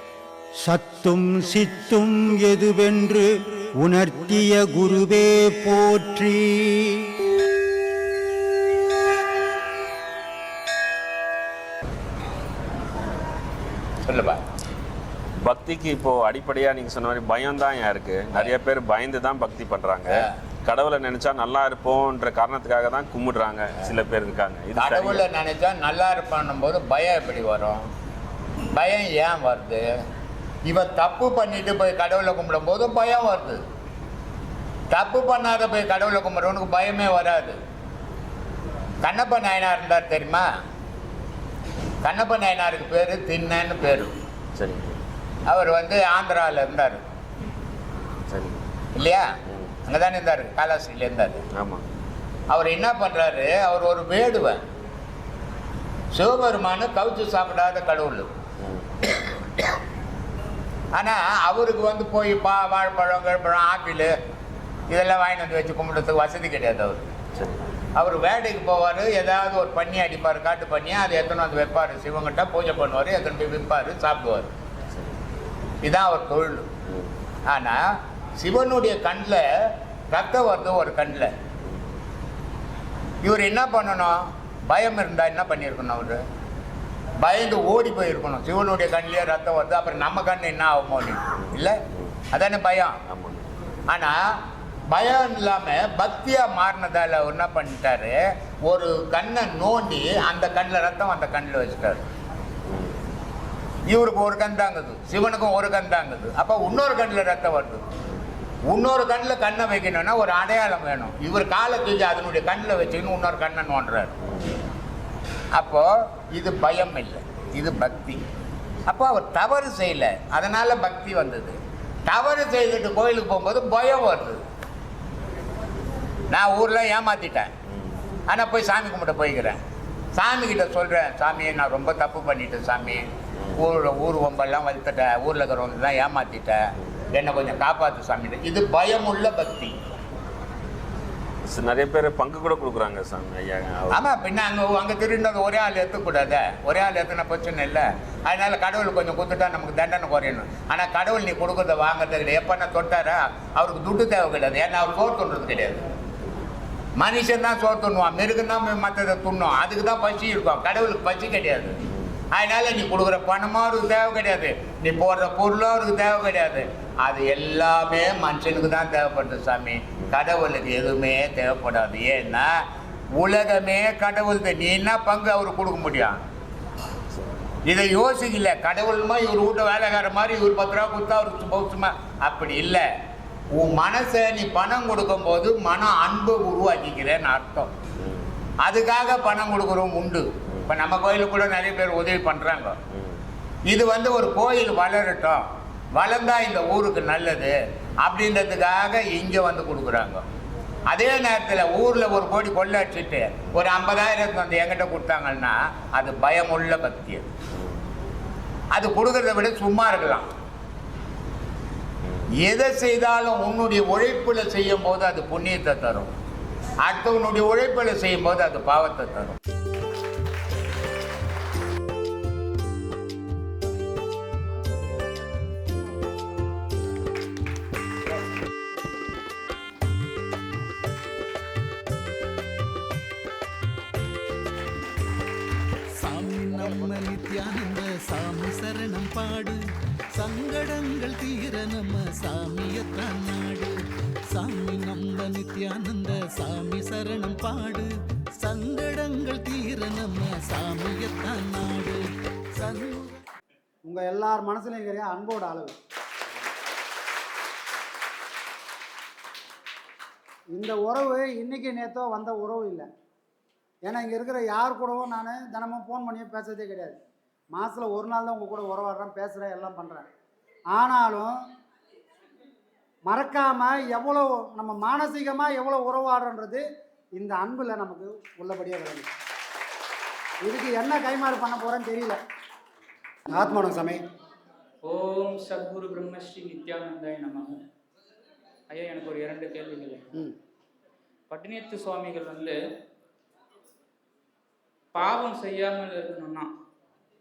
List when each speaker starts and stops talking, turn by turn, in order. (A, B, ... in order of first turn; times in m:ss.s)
0:00.6-0:07.2 A
0:14.0-0:14.4 B
0:15.4-0:25.2 C
0:24.8-0:27.8 B
0:28.7-0:29.9 B
0:30.7-0:33.6 B
0:34.9-0:37.6 B
0:39.0-0:40.5 B
0:42.0-0:44.1 B
0:44.6-0:44.8 C
0:45.5-0:47.0 B
0:48.3-0:48.6 C
0:49.0-0:49.2 B
0:49.8-0:51.4 B
0:51.6-0:51.8 C
0:52.5-0:54.6 B
0:56.1-0:58.3 B
1:00.9-1:04.1 B
1:04.9-1:07.0 B
1:07.4-1:07.6 C
1:07.9-1:14.5 B
1:15.8-1:16.7 B
1:17.5-1:17.8 B
1:18.4-1:19.4 B
1:20.1-1:21.3 B
1:23.2-1:26.2 B
1:27.2-1:31.8 B
1:32.3-1:33.0 B
1:33.1-1:33.4 C
1:33.9-1:34.2 B
1:34.9-1:42.0 B
1:43.9-1:47.8 B
1:48.7-1:54.1 B
1:55.5-1:58.2 B
1:58.9-2:04.4 B
2:06.3-2:07.5 B
2:08.3-2:09.6 B
2:10.1-2:19.7 B
2:21.5-2:24.0 C
2:23.9-2:35.8 B
2:37.0-2:41.8 B
2:42.3-2:52.5 B
2:53.2-2:56.2 B
2:57.7-3:02.8 B
3:03.5-3:07.7 B
3:08.6-3:12.8 B
3:13.7-3:20.2 B
3:20.9-3:27.3 B
3:28.7-3:30.3 B
3:32.4-3:36.1 B
3:36.8-3:39.4 B
3:56.0-3:59.6 D
4:00.1-4:03.8 D
4:04.3-4:12.0 D
4:12.5-4:13.2 D
4:13.8-4:15.8 E
4:20.5-4:22.9 E
4:23.8-4:27.0 E
4:27.5-4:30.1 E
4:30.7-4:31.3 E
4:33.1-4:36.6 E
4:37.2-4:39.1 E
4:40.4-4:42.2 E
4:43.3-4:44.0 E
4:44.8-4:47.5 F
4:48.7-4:50.2 F
4:51.3-4:52.5 F
4:54.9-4:56.5 F